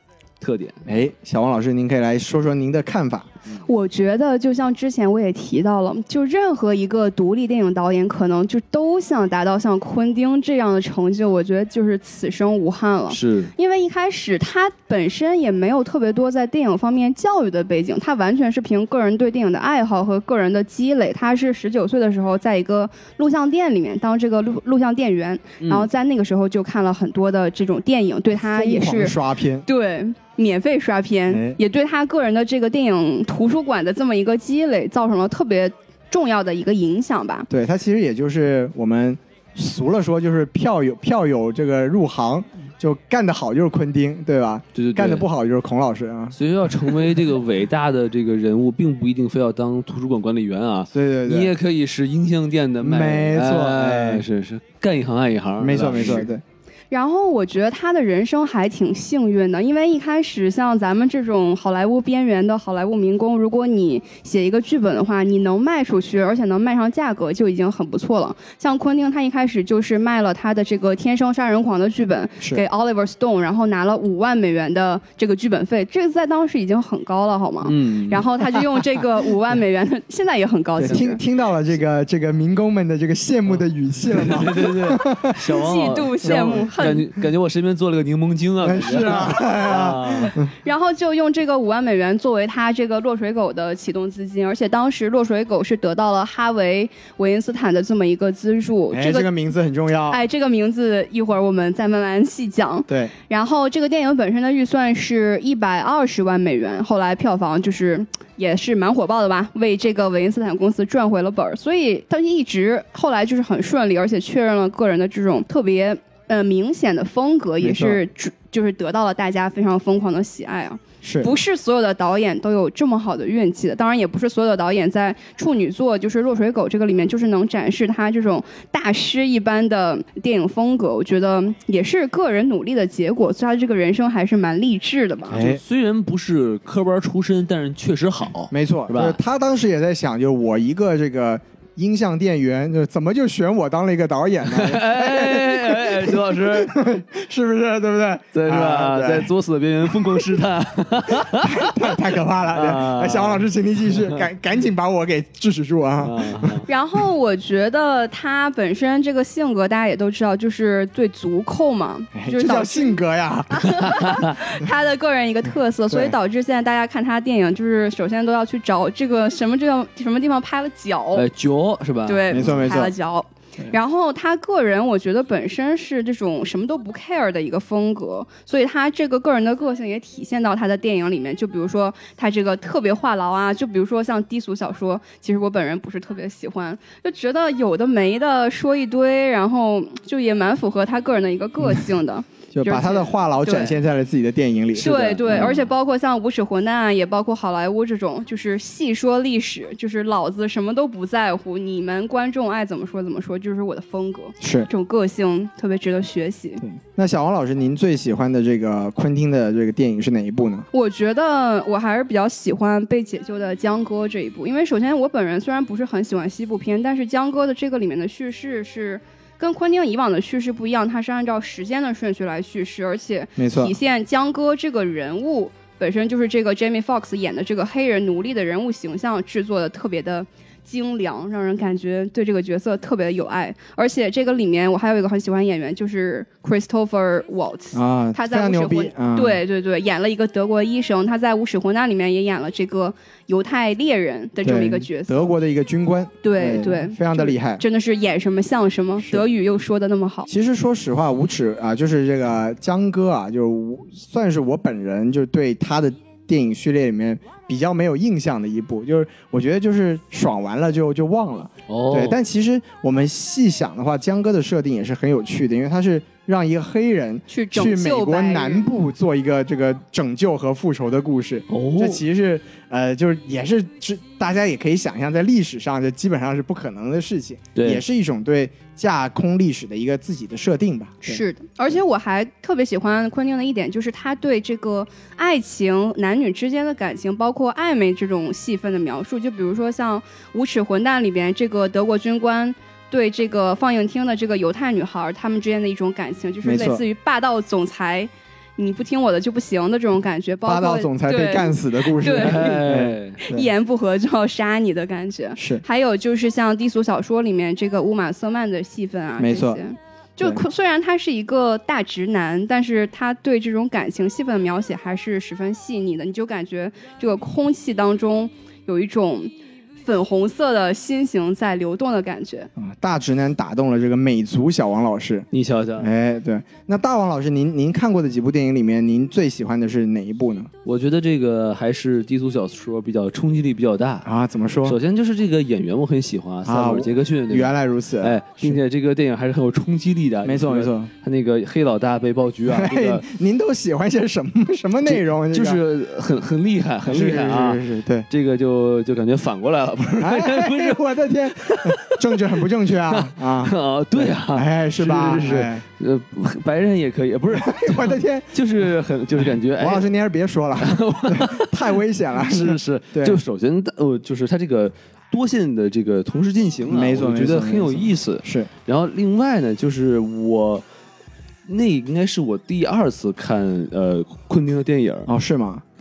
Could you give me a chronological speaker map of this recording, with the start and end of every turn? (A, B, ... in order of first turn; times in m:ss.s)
0:00.4-0:00.8 A
0:00.8-0:03.3 B
0:03.6-0:37.5 C
0:13.1-0:13.5 A
0:25.6-0:25.9 A
0:28.4-0:29.6 B
0:31.3-0:31.6 B
0:37.5-0:47.2 B
0:44.7-0:45.3 A
0:46.3-0:56.3 A
0:50.9-0:51.5 B
0:52.8-0:54.2 B
0:55.6-0:56.4 B
0:56.9-1:21.2 C
1:17.6-1:18.4 A
1:20.8-1:25.4 B
1:23.5-1:30.3 A
1:25.3-1:27.0 C
1:26.2-1:26.7 B
1:28.6-1:30.5 B
1:30.6-1:39.3 C
1:38.9-1:40.2 B
1:40.1-2:15.4 C
1:42.9-1:43.1 B
1:57.6-1:58.0 B
2:01.0-2:01.3 B
2:15.3-2:15.6 B
2:15.3-2:19.2 A
2:18.5-2:29.3 B
2:24.4-2:27.0 A
2:28.3-2:32.0 A
2:31.2-2:36.7 B
2:32.5-2:33.4 A
2:36.0-2:36.7 A
2:36.7-2:51.2 C
2:42.1-2:44.0 B
2:44.0-2:44.3 A
2:45.9-2:46.1 B
2:51.1-2:52.5 A
2:52.0-3:13.8 C
2:52.3-2:52.9 B
3:12.5-3:15.6 B
3:14.7-3:26.6 C
3:15.3-3:15.7 A
3:24.4-3:24.7 B
3:26.6-3:30.7 B
3:30.7-4:05.3 C
3:43.4-3:43.7 B
3:57.7-3:59.4 B
4:04.4-4:07.6 B
4:06.2-4:10.3 C
4:09.0-4:09.2 B
4:10.3-4:41.2 B
4:21.7-4:22.2 A
4:27.3-4:28.7 C
4:31.5-4:32.0 A
4:37.6-4:37.8 A
4:41.0-5:22.5 C
4:56.4-4:56.8 B
5:00.4-5:03.5 B
5:02.2-5:03.2 A
5:05.4-5:05.6 B
5:09.2-5:09.6 B
5:22.6-5:30.5 B
5:25.3-5:25.9 A
5:30.6-5:34.0 A
5:34.0-5:34.8 B
5:34.6-5:43.0 A
5:36.4-5:38.6 B
5:40.2-5:40.9 B
5:42.5-5:45.6 B
5:44.8-5:50.8 A
5:46.8-5:48.1 B
5:50.0-5:55.6 B
5:51.4-5:52.2 A
5:52.9-5:59.9 A
5:57.3-6:03.2 B
6:00.6-6:10.6 A
6:06.6-6:08.5 B
6:11.4-6:15.1 A
6:15.1-6:15.6 B